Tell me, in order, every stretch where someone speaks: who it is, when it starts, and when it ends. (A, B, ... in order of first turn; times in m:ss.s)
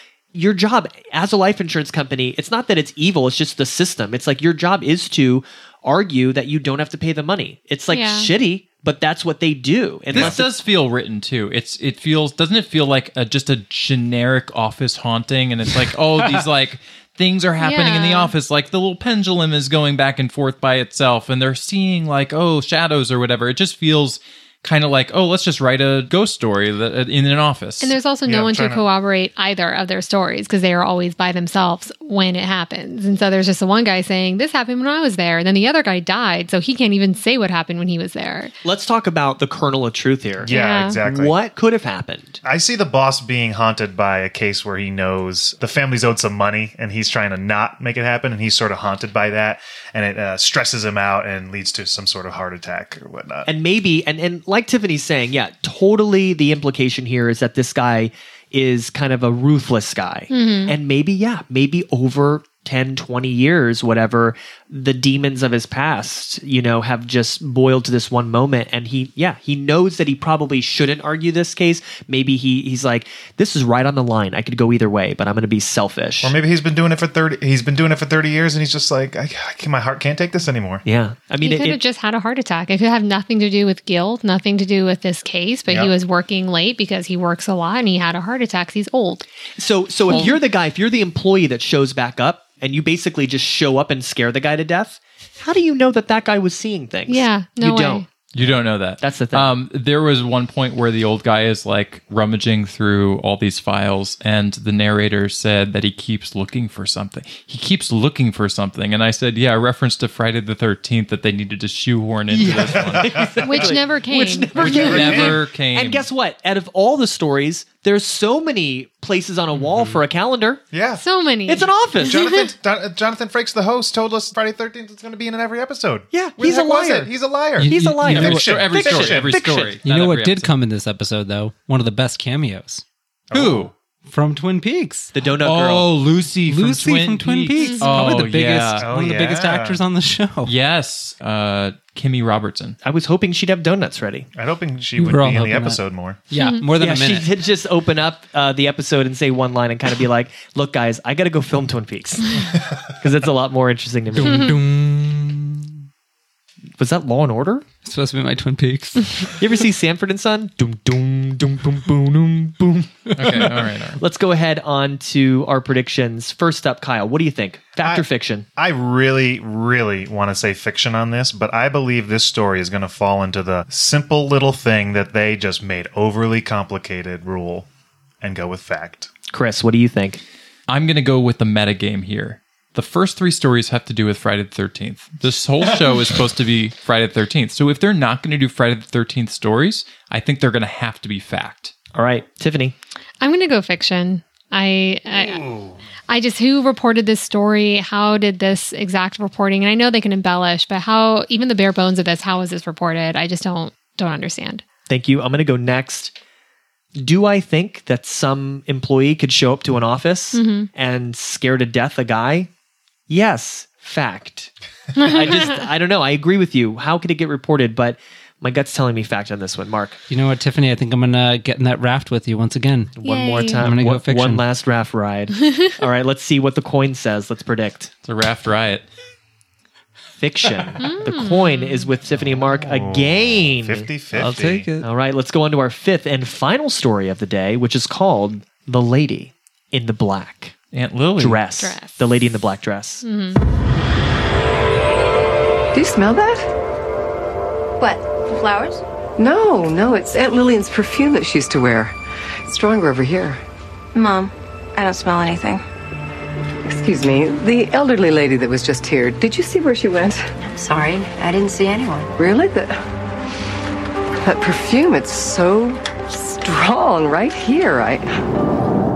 0:00.3-0:10.5 A
0:07.9-0:08.3 B
0:10.1-0:10.4 C
0:10.1-0:28.0 D
0:17.6-0:18.3 B
0:27.8-0:38.5 B
0:28.2-0:28.8 C
0:38.6-0:42.4 A
0:40.4-0:41.4 C
0:40.5-0:41.0 B
0:42.4-0:53.5 C
0:53.4-1:16.3 A
1:00.3-1:00.7 B
1:16.2-1:20.8 C
1:20.8-1:21.8 A
1:21.4-1:29.2 B
1:29.6-1:39.5 A
1:37.1-1:38.0 B
1:38.3-1:53.3 D
1:52.3-2:00.6 A
1:52.4-1:53.7 C
1:53.4-1:55.1 B
1:54.5-1:55.4 C
1:54.6-1:56.0 D
2:00.7-2:01.0 C
2:01.0-2:02.5 B
2:01.4-2:02.2 A
2:02.0-2:09.5 C
2:06.1-2:07.1 A
2:07.6-2:08.6 E
2:07.6-2:09.8 A
2:08.0-2:10.5 D
2:09.8-2:12.8 E
2:13.3-2:13.7 C
2:13.3-2:13.7 D
2:14.0-2:15.1 E
2:15.1-2:15.9 A
2:15.4-2:18.8 D
2:16.4-2:20.5 E
2:17.6-2:18.1 B
2:18.8-2:19.8 C
2:20.4-2:22.8 D
2:22.8-2:24.3 A
2:24.3-2:26.2 C
2:25.0-2:27.3 E
2:26.4-2:26.6 B
2:26.8-2:34.6 A
2:34.1-2:35.7 E
2:36.8-2:37.6 A
2:37.8-2:39.4 E
2:39.4-2:48.4 A
2:43.2-2:44.0 D
2:47.8-2:57.7 C
2:58.2-2:59.1 C
2:59.3-3:00.2 A
3:00.7-3:11.7 D
3:11.9-3:12.7 A
3:13.2-3:15.4 B
3:15.1-3:15.8 C
3:16.1-3:24.6 B
3:24.9-3:26.1 A
3:27.0-3:32.5 A
3:30.3-3:30.7 B
3:33.1-3:40.0 A
3:34.9-3:35.6 B
3:40.1-3:42.9 E
3:43.0-3:47.9 A
3:43.0-3:43.6 B
3:43.6-3:44.4 E
3:48.0-3:48.9 D
3:50.2-3:54.0 A
3:50.8-3:51.9 B
3:52.2-3:54.7 C
3:54.1-3:54.9 E
3:54.8-4:00.6 A
4:00.7-4:01.4 D
4:01.2-4:03.0 A
4:01.6-4:02.0 B
4:03.0-4:03.4 B
4:05.7-4:06.4 F
4:07.8-4:08.8 G
4:09.2-4:11.9 F
4:12.4-4:13.4 F
4:13.9-4:15.6 G
4:16.6-4:20.9 F
4:20.5-4:22.1 G
4:22.1-4:22.8 F
4:24.2-4:28.1 F